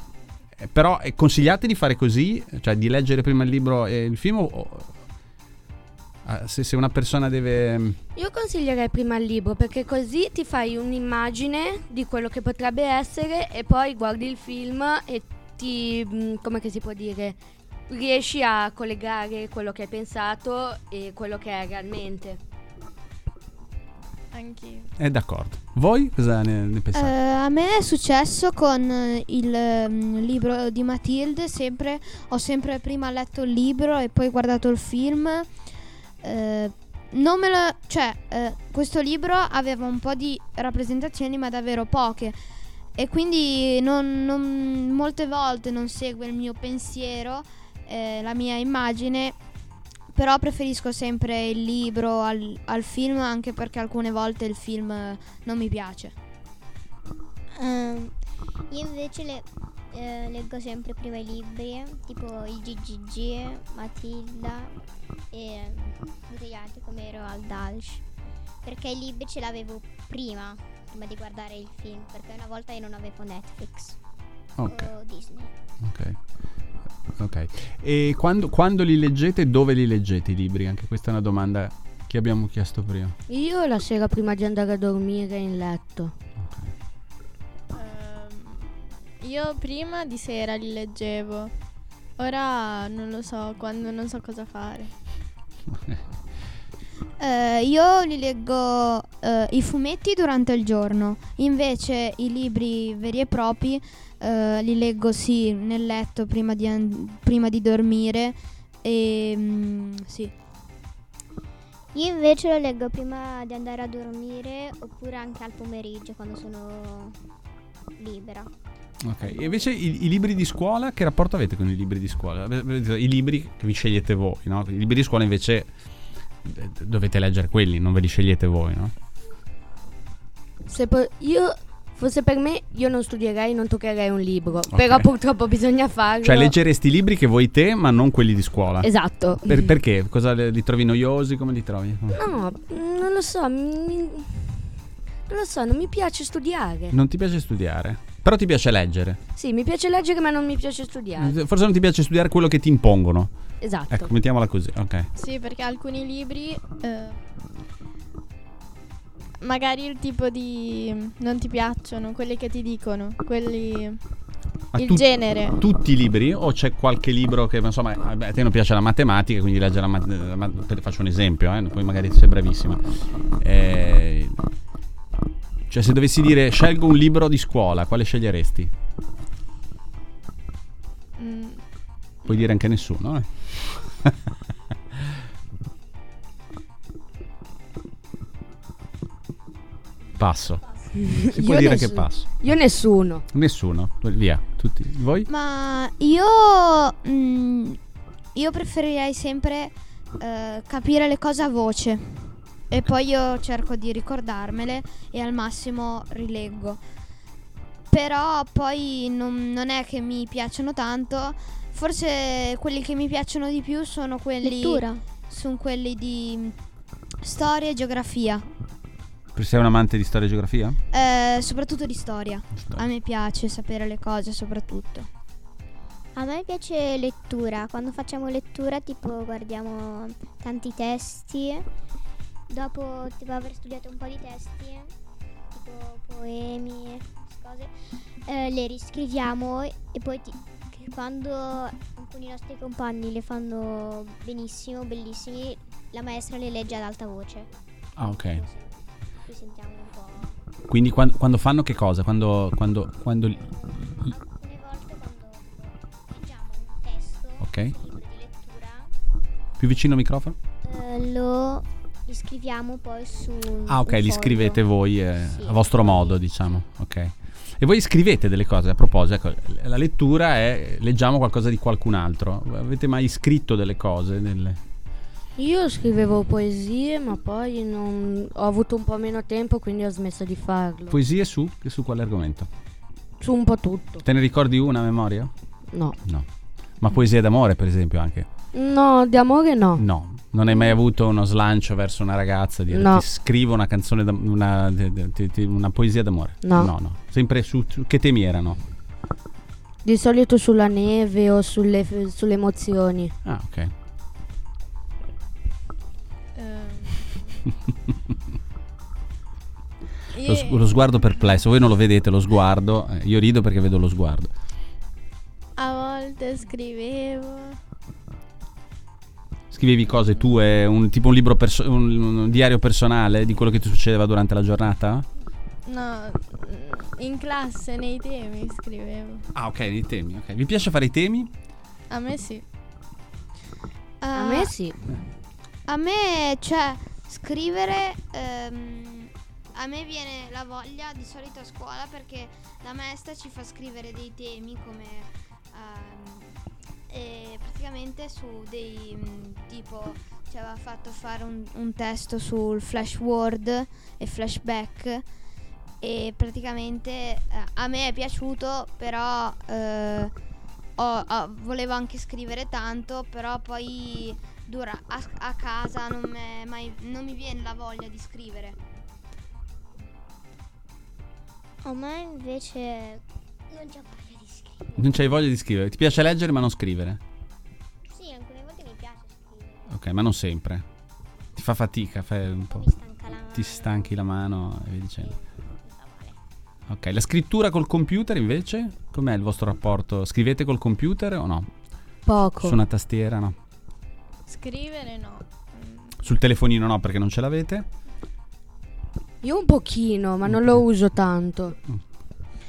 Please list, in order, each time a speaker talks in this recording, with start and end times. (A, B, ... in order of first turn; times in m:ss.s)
0:00.6-0:05.0 A
0:06.2-0:08.0 A
0:08.2-0:17.4 B
0:17.9-0:22.4 B
0:24.3-0:24.9 C
0:25.0-0:27.1 A
0:26.9-0:35.5 D
0:36.2-0:42.4 D
0:43.0-0:49.4 D
0:50.1-0:56.1 D
0:57.5-0:58.2 E
0:58.7-1:04.8 E
1:05.3-1:08.0 E
1:08.6-1:14.0 E
1:14.6-1:14.9 A
1:14.6-1:15.5 E
1:15.8-1:16.2 A
1:17.2-1:23.2 A
1:23.3-1:26.1 B
1:26.4-1:26.7 A
1:27.7-1:31.5 C
1:32.2-1:34.9 C
1:35.7-1:36.0 A
1:37.2-1:50.3 D
1:51.9-1:57.2 E
1:58.0-1:58.5 E
1:59.0-2:05.7 A
2:06.4-2:08.9 A
2:10.6-2:16.5 B
2:14.7-2:15.1 A
2:16.2-2:18.9 A
2:18.8-2:19.7 B
2:19.4-2:22.2 A
2:22.1-2:24.6 B
2:25.3-2:26.9 B
2:26.9-2:29.2 A
2:29.4-2:31.3 B
2:31.2-2:33.3 A
2:33.6-2:34.1 B
2:33.9-2:35.1 A
2:35.1-2:37.2 C
2:39.4-2:44.0 C
2:44.7-2:45.6 C
2:44.7-2:52.8 A
2:53.4-2:54.4 A
2:55.7-2:58.7 A
3:01.2-3:01.6 C
3:02.2-3:04.2 A
3:10.2-3:10.6 A
3:11.0-3:13.2 B
3:11.3-3:12.5 A
3:13.3-3:15.3 A
3:15.3-3:17.8 D
3:18.3-3:26.8 D
3:27.9-3:36.5 D
3:34.4-3:35.0 E
3:37.2-3:38.4 D
3:39.3-3:40.8 A
3:40.9-3:45.1 D
3:46.2-3:51.7 E
3:52.5-3:54.9 E
3:55.5-3:57.7 E
3:58.2-4:07.5 E
4:08.0-4:08.4 A
4:08.0-4:08.7 E
4:09.2-4:10.4 E
4:10.7-4:13.4 A
4:13.3-4:18.9 E
4:17.4-4:17.7 A
4:19.6-4:20.4 A
4:20.6-4:24.6 E
4:23.7-4:34.6 A
4:25.2-4:26.2 E
4:35.4-4:41.0 B
4:40.9-4:42.5 A
4:43.2-4:44.0 B
4:44.0-4:45.3 A
4:45.7-4:46.0 B
4:46.8-4:48.3 A
4:48.5-4:49.8 B
4:49.8-4:58.6 A
4:52.7-4:53.0 B
4:56.4-4:56.7 B
4:59.8-5:03.1 B
5:03.2-5:03.7 A
5:06.3-5:07.4 C
5:10.1-5:11.1 C
5:10.2-5:14.3 A
5:15.6-5:17.6 C
5:19.5-5:25.1 A
5:25.6-5:29.2 C
5:29.3-5:31.3 A
5:31.9-5:32.4 C
5:34.0-5:34.5 D
5:34.1-5:34.8 B
5:35.7-5:46.3 D
5:46.9-5:55.0 D
5:55.8-6:00.1 D
6:00.8-6:08.6 D
6:11.6-6:15.0 E
6:14.8-6:17.0 A
6:17.9-6:19.8 E
6:19.7-6:20.6 A
6:21.4-6:22.7 A
6:22.5-6:24.0 E
6:23.3-6:25.1 A
6:25.0-6:26.2 E
6:26.7-6:31.5 A
6:32.0-6:32.6 B
6:32.4-6:33.4 A
6:34.3-6:36.0 C
6:36.0-6:37.7 A
6:39.2-6:41.5 B
6:40.3-6:40.6 A